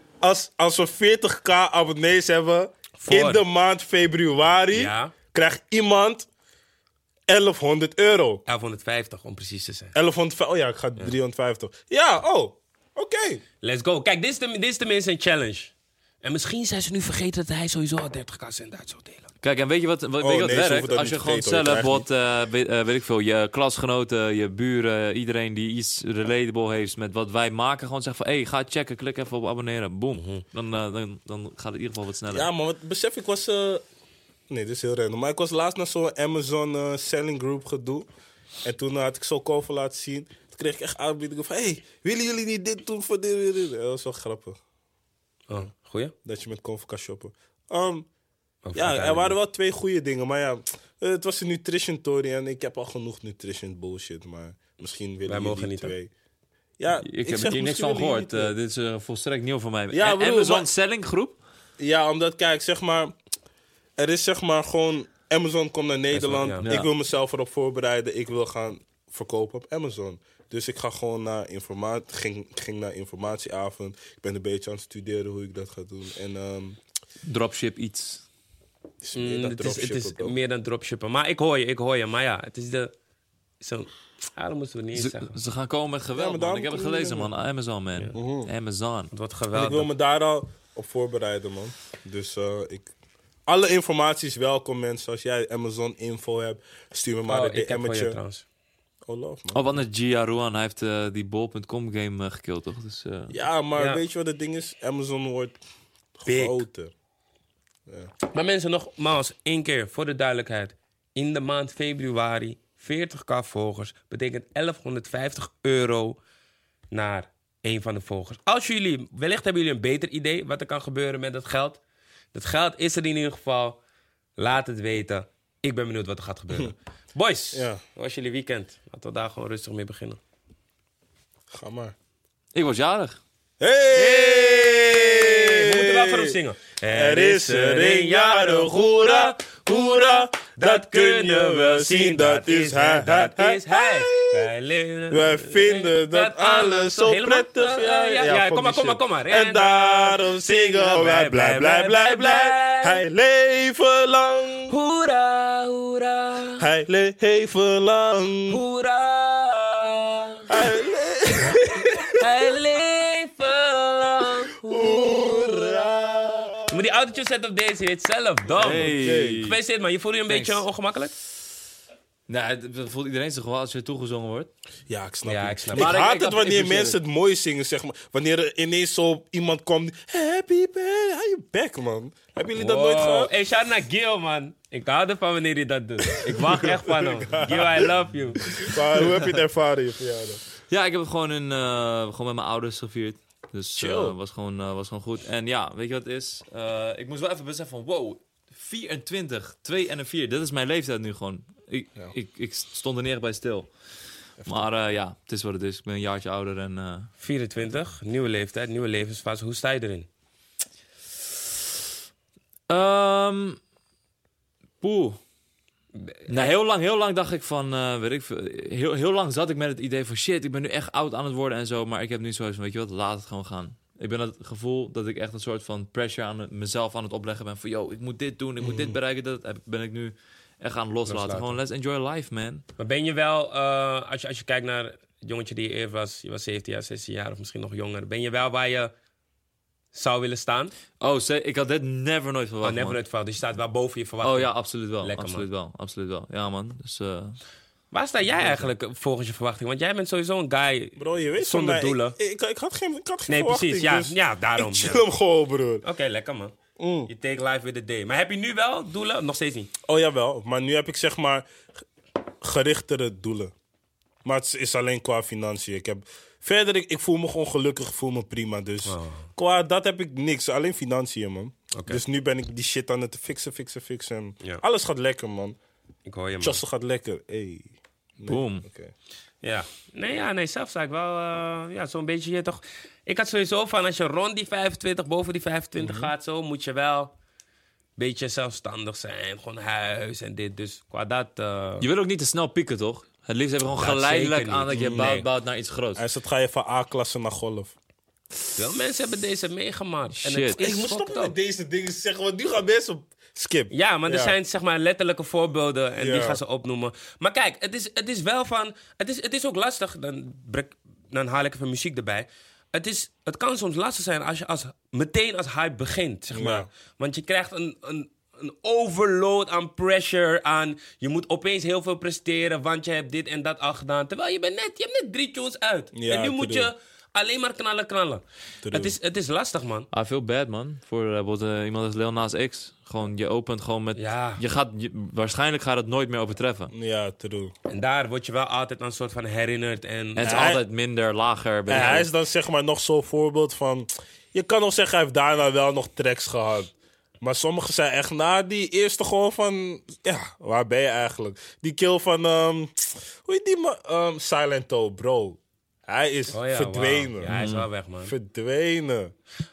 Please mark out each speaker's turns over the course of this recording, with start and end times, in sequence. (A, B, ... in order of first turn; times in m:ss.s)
0:00.2-0:06.3 A
0:03.0-0:03.4 B
0:04.7-0:05.1 B
0:07.3-0:08.4 A
0:08.5-0:09.9 B
0:09.9-0:13.4 A
0:13.6-0:15.7 B
0:16.2-0:19.3 B
0:19.4-0:32.5 C
0:20.2-0:22.0 A
0:30.1-0:30.4 B
0:32.3-0:33.8 A
0:34.5-0:38.1 A
0:38.6-0:44.6 A
0:45.5-0:46.1 B
0:46.2-0:48.1 A
0:48.6-0:49.3 B
0:48.7-0:56.1 A
0:55.3-0:55.9 B
0:56.8-0:58.5 A
0:57.0-1:01.4 C
0:59.9-1:00.7 A
1:01.8-1:03.1 A
1:04.0-1:16.8 A
1:06.1-1:06.6 B
1:06.6-1:06.9 C
1:17.2-1:18.2 C
1:19.0-1:20.4 A
1:19.1-1:22.9 B
1:23.6-1:25.3 B
1:24.9-1:29.1 C
1:26.2-1:27.3 A
1:28.1-1:28.5 A
1:29.1-1:29.9 B
1:29.5-1:32.9 A
1:33.5-1:38.2 A
1:37.3-1:38.4 B
1:39.1-1:39.8 A
1:39.5-1:43.3 C
1:43.3-1:45.6 A
1:43.8-1:44.0 B
1:46.2-1:46.9 A
1:46.2-1:46.6 B
1:48.3-1:56.2 B
1:56.9-2:01.8 B
2:02.3-2:03.8 B
2:04.4-2:10.2 B
2:07.5-2:07.8 A
2:11.5-2:11.9 A
2:12.5-2:13.2 C
2:13.6-2:16.4 A
2:14.0-2:33.0 B
2:16.9-2:24.5 A
2:25.1-2:34.7 A
2:34.7-2:36.6 B
2:36.6-2:38.6 A
2:38.5-2:40.4 B
2:40.5-2:42.2 A
2:42.2-2:45.9 B
2:44.6-2:46.8 A
2:46.7-2:51.1 B
2:48.5-2:49.6 C
2:48.8-2:49.4 A
2:50.3-2:50.6 C
2:52.3-2:54.5 C
2:54.9-3:03.3 A
2:55.2-2:55.9 B
2:55.7-2:57.0 C
3:02.6-3:09.2 B
3:06.3-3:07.9 A
3:08.5-3:10.4 A
3:10.7-3:23.7 C
3:13.8-3:14.1 A
3:24.4-3:27.1 C
3:27.2-3:30.1 B
3:32.7-3:33.6 C
3:34.8-3:35.2 C
3:36.0-3:36.5 B
3:36.3-3:52.6 C
3:48.6-3:49.0 A
3:51.0-3:51.6 B
3:52.8-3:58.9 B
3:59.9-4:00.7 B
4:01.0-4:03.0 C
4:02.6-4:05.5 B
4:04.2-4:07.4 C
4:07.9-4:12.2 B
4:08.3-4:08.7 A
4:11.0-4:15.8 A
4:13.3-4:15.0 B
4:15.8-4:16.5 B
4:16.8-4:17.1 A
4:17.1-4:19.7 B
4:19.9-4:21.5 A
4:22.4-4:23.5 A
4:24.2-4:35.6 A
4:28.8-4:29.2 B
4:31.7-4:32.0 B
4:36.0-4:36.6 B
4:36.4-4:38.9 A
4:38.3-4:38.6 C
4:39.4-4:47.1 B
4:45.8-4:46.1 A
4:48.0-4:51.8 B
4:51.8-4:56.0 C
4:53.8-4:55.2 B
4:54.7-4:55.1 A
4:56.0-4:57.7 A
4:58.6-5:01.3 B
5:00.2-5:00.6 C
5:00.6-5:04.4 A
5:03.7-5:29.9 B
5:06.0-5:06.4 A
5:16.3-5:16.7 A
5:25.9-5:26.7 A
5:28.6-5:29.0 A
5:29.9-5:36.7 C
5:34.0-5:34.4 B
5:36.7-5:37.5 A
5:37.7-5:40.5 B
5:40.1-5:42.1 C
5:40.2-5:40.6 A
5:41.7-5:46.7 A
5:41.7-5:42.0 B
5:47.2-5:57.3 A
5:56.3-5:58.1 B
5:57.3-5:57.7 C
5:58.0-5:59.1 A